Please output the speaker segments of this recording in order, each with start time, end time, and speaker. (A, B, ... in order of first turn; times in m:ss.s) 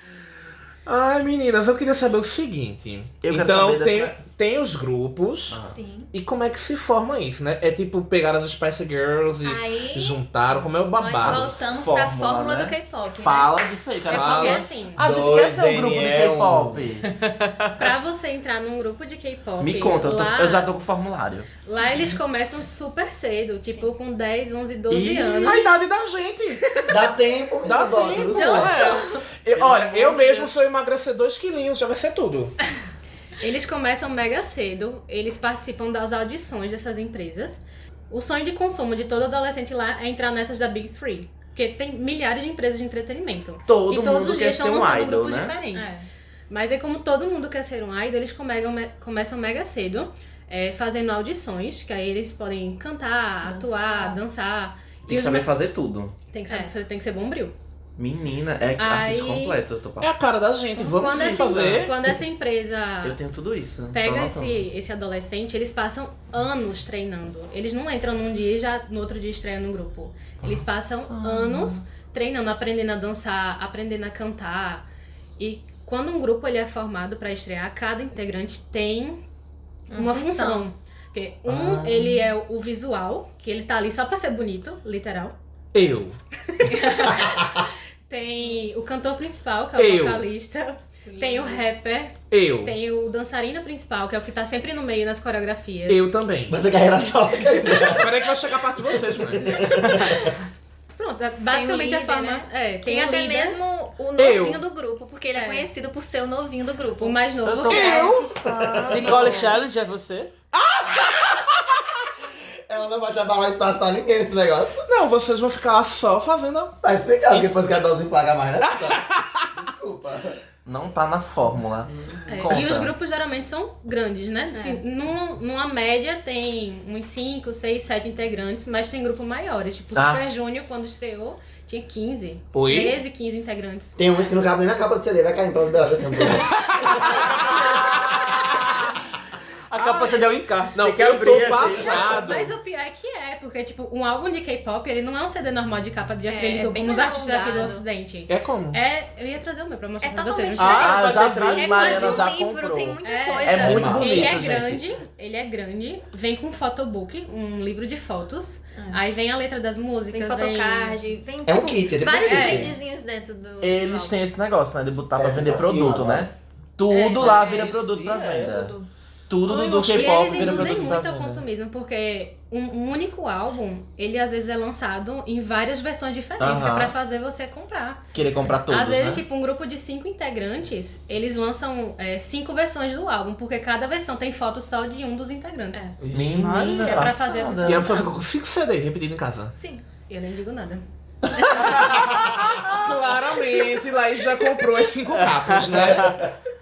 0:00.9-0:11.5 A
0:03.2-0:04.2 B
0:05.5-0:05.8 B
0:05.7-0:06.1 C
0:09.4-0:10.2 C
0:11.0-0:13.6 C
0:11.2-0:17.1 B
0:14.1-0:15.0 D
0:14.1-0:14.6 A
0:14.4-0:14.6 C
0:15.0-0:16.8 E
0:17.2-0:17.7 F
0:17.8-0:20.7 D
0:19.6-0:21.5 B
0:21.7-0:25.7 D
0:23.7-0:23.9 C
0:24.9-0:25.7 B
0:25.4-0:27.0 A
0:26.9-0:28.9 E
0:27.6-0:28.8 A
0:28.4-0:29.0 D
0:28.4-0:29.0 C
0:29.4-0:32.6 A
0:29.9-0:30.5 D
0:33.4-0:45.9 D
0:43.7-0:45.6 B
0:45.7-0:46.1 C
0:46.5-0:55.5 D
0:53.4-0:54.2 C
0:55.1-0:56.2 B
0:56.3-0:57.6 D
0:58.0-1:00.2 B
0:58.8-0:59.6 D
1:00.0-1:02.0 A
1:00.9-1:03.2 D
1:01.0-1:01.9 B
1:03.0-1:04.7 B
1:03.9-1:14.9 D
1:10.4-1:11.8 B
1:15.4-1:19.2 D
1:19.9-1:20.7 C
1:19.9-1:25.4 D
1:21.5-1:22.3 B
1:25.7-1:26.2 A
1:26.6-1:36.1 D
1:26.7-1:27.1 C
1:29.8-1:30.2 A
1:31.0-1:31.6 C
1:32.3-1:32.8 A
1:35.9-1:36.6 A
1:36.5-1:38.2 E
1:37.8-1:39.8 A
1:39.1-1:40.2 E
1:41.0-1:43.6 D
1:41.5-1:47.2 C
1:44.2-1:44.6 A
1:45.3-1:45.7 D
1:47.0-1:48.2 D
1:47.4-1:49.6 B
1:47.7-1:48.4 A
1:47.8-1:48.1 C
1:48.6-1:49.1 E
1:48.9-1:50.3 F
1:50.5-1:51.8 A
1:52.7-1:54.9 E
1:54.9-1:56.8 A
1:56.8-1:59.0 E
1:58.6-1:59.5 A
1:59.5-2:00.4 E
2:00.6-2:02.9 B
2:02.3-2:14.0 D
2:04.5-2:04.8 C
2:10.0-2:10.3 B
2:12.5-2:13.0 A
2:14.0-2:16.6 E
2:16.5-2:17.5 A
2:18.0-2:18.5 F
2:19.7-2:22.1 F
2:19.8-2:22.6 A
2:21.7-2:31.1 D
2:26.3-2:27.8 C
2:28.3-2:28.8 A
2:30.0-2:34.4 C
2:30.6-2:32.3 F
2:30.8-2:34.8 B
2:33.0-2:41.0 D
2:33.6-2:34.2 E
2:38.8-2:39.1 C
2:40.1-2:44.2 C
2:41.5-2:42.8 E
2:42.3-2:42.8 D
2:43.6-2:48.8 B
2:45.2-2:46.3 E
2:46.9-2:47.4 D
2:47.2-2:48.8 F
2:48.5-2:48.8 C
2:49.3-2:51.5 B
2:49.5-2:50.2 A
2:49.9-2:58.1 D
2:50.2-2:50.8 C
2:56.4-2:57.0 B
2:58.1-2:59.2 B
2:58.7-3:05.9 D
3:06.0-3:07.2 F
3:06.1-3:08.0 B
3:06.8-3:08.1 D
3:07.6-3:09.5 A
3:09.5-3:09.8 C
3:10.1-3:10.8 D
3:11.6-3:16.2 A
3:11.7-3:12.0 F
3:15.3-3:16.2 F
3:15.8-3:16.2 E